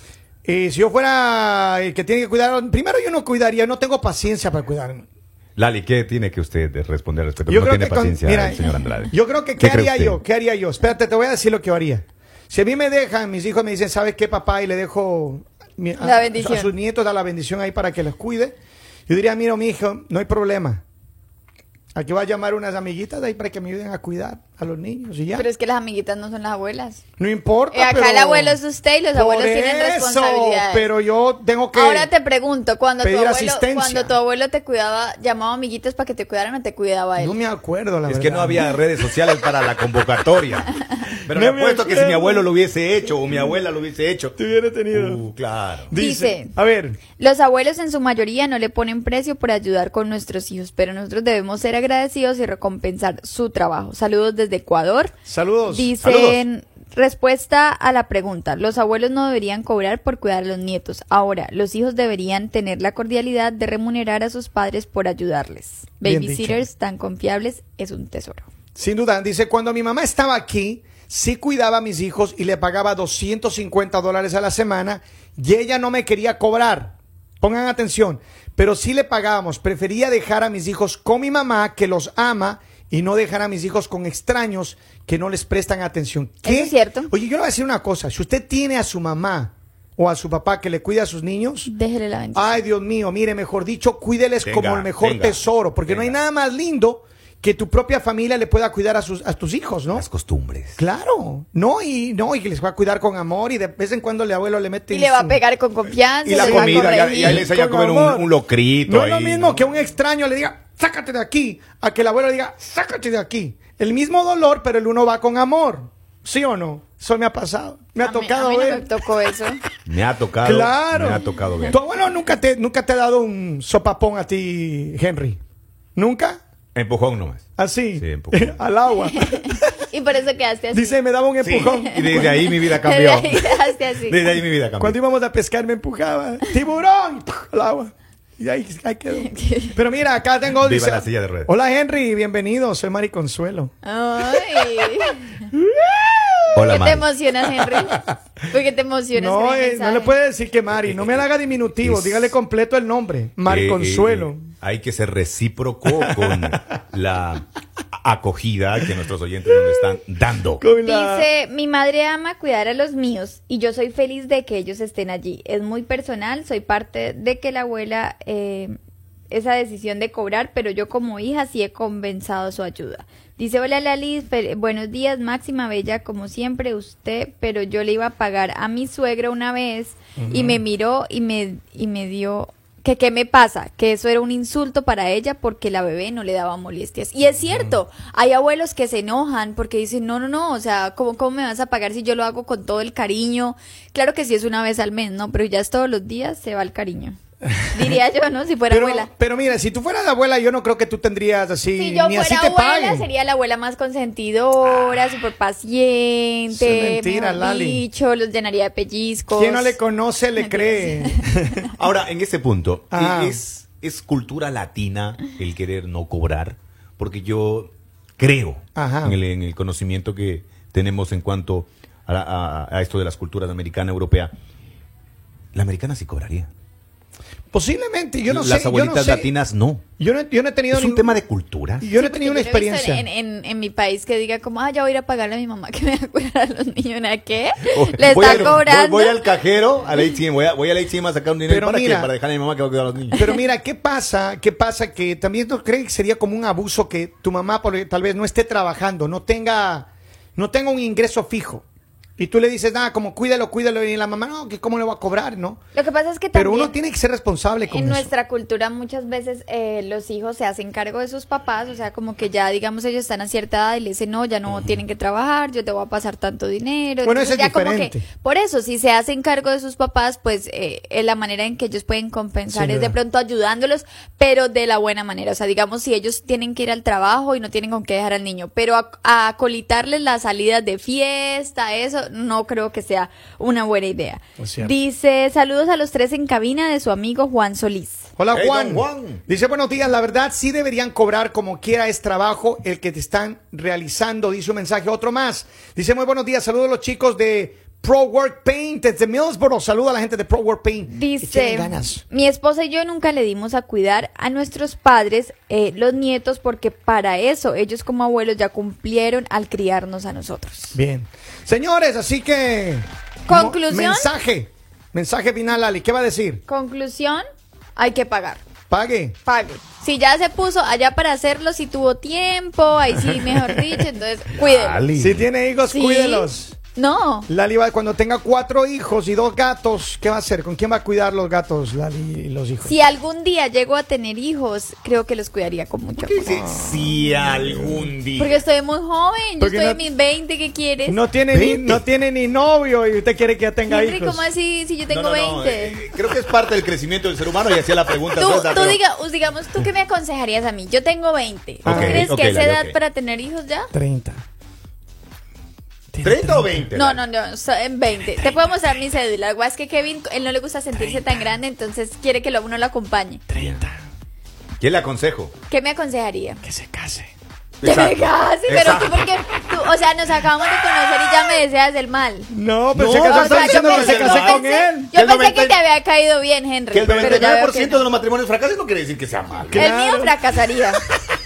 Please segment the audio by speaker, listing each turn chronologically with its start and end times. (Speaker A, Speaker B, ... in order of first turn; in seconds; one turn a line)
Speaker A: 0.5-5.1
Speaker B: 5.6-10.2
Speaker A: 7.5-18.6
Speaker C: 16.0-16.7
Speaker A: 19.1-20.8
Speaker A: 21.9-25.5
Speaker C: 25.3-27.0
Speaker A: 27.2-28.6
Speaker C: 27.7-30.9
Speaker A: 29.1-32.1
Speaker C: 31.7-37.4
Speaker A: 33.0-34.1
Speaker A: 37.2-38.7
Speaker B: 38.1-44.4
Speaker A: 41.3-42.5
Speaker A: 44.4-45.2
Speaker B: 44.9-45.9
Speaker A: 45.9-47.0
Speaker C: 45.9-46.5
Speaker C: 47.2-55.1
Speaker A: 55.3-55.9
Speaker C: 55.7-68.5
Speaker B: 56.0-56.4
Speaker A: 66.0-66.6
Speaker A: 68.8-91.7
Speaker C: 86.4-87.1
Speaker C: 91.7-92.6
Speaker A: 92.3-100.1
Speaker B: 94.4-96.2
Speaker B: 99.9-100.8
Speaker A: 100.8-105.4
Speaker C: 104.9-107.5
Speaker B: 106.2-109.7
Speaker A: 106.3-108.3
Speaker A: 108.9-118.9
Speaker C: 118.0-119.6
Speaker B: 119.9-121.8
Speaker A: 120.4-125.4
Speaker A: 126.0-126.4
Speaker B: 126.8-128.6
Speaker A: 127.6-129.7
Speaker C: 129.2-131.0
Speaker A: 130.7-132.3
Speaker B: 131.4-135.0
Speaker C: 131.7-134.2
Speaker A: 134.8-143.7
Speaker C: 139.2-139.8
Speaker B: 140.6-141.5
Speaker C: 143.8-145.4
Speaker A: 145.6-146.7
Speaker B: 146.6-147.1
Speaker C: 146.6-150.2
Speaker A: 149.2-154.5
Speaker B: 150.7-152.4
Speaker B: 153.4-157.5
Speaker A: 156.0-156.6
Speaker B: 158.0-160.6
Speaker A: 160.6-161.3
Speaker C: 160.8-168.8
Speaker C: 169.3-197.2
Speaker A: 180.2-180.6
Speaker C: 197.7-199.1
Speaker A: 198.7-203.1
Speaker C: 201.8-209.8
Speaker A: 206.5-207.8
Speaker A: 209.3-211.6
Speaker C: 210.4-211.4
Speaker B: 211.8-224.3
Speaker A: 212.9-213.4
Speaker A: 218.8-219.2
Speaker B: 225.5-226.5
Speaker A: 227.5-229.3
Speaker B: 228.3-229.8
Speaker A: 230.0-231.2
Speaker B: 230.7-231.9
Speaker A: 231.8-233.1
Speaker C: 232.0-239.2
Speaker B: 237.7-243.3
Speaker A: 238.1-238.6
Speaker A: 241.5-242.1
Speaker A: 243.1-251.7
Speaker A: 252.2-255.6
Speaker C: 255.8-256.7
Speaker A: 256.3-258.1
Speaker C: 257.7-288.0
Speaker A: 267.0-268.1
Speaker A: 272.5-273.0
Speaker A: 284.4-284.7
Speaker A: 288.2-302.0
Speaker B: 288.3-289.2
Speaker C: 300.9-310.8
Speaker A: 310.7-316.4
Speaker C: 313.3-314.1
Speaker C: 316.5-317.2
Speaker C: 317.8-318.4
Speaker A: 318.7-319.2
Speaker C: 319.3-324.9
Speaker B: 324.3-325.3
Speaker A: 324.9-326.6
Speaker C: 325.7-327.3
Speaker A: 327.3-332.8
Speaker C: 332.6-336.2
Speaker B: 336.0-338.4
Speaker A: 336.3-337.8
Speaker C: 338.2-341.0
Speaker A: 339.4-339.8
Speaker A: 340.9-344.2
Speaker B: 341.3-341.8
Speaker C: 343.7-345.8
Speaker B: 344.9-348.8
Speaker C: 348.1-353.7
Speaker A: 351.6-352.1
Speaker B: 351.6-352.8
Speaker A: 353.7-354.2
Speaker A: 355.9-356.7
Speaker B: 356.0-357.0
Speaker C: 356.8-363.2
Speaker A: 363.3-363.8
Speaker B: 363.3-363.7
Speaker B: 364.6-365.3
Speaker C: 365.5-366.4
Speaker A: 366.4-367.1
Speaker B: 367.6-369.1
Speaker C: 367.6-372.3
Speaker A: 372.3-374.9
Speaker B: 372.7-375.6
Speaker C: 373.0-377.9
Speaker B: 376.7-379.7
Speaker A: 376.9-377.3
Speaker A: 379.5-380.1
Speaker C: 379.6-380.8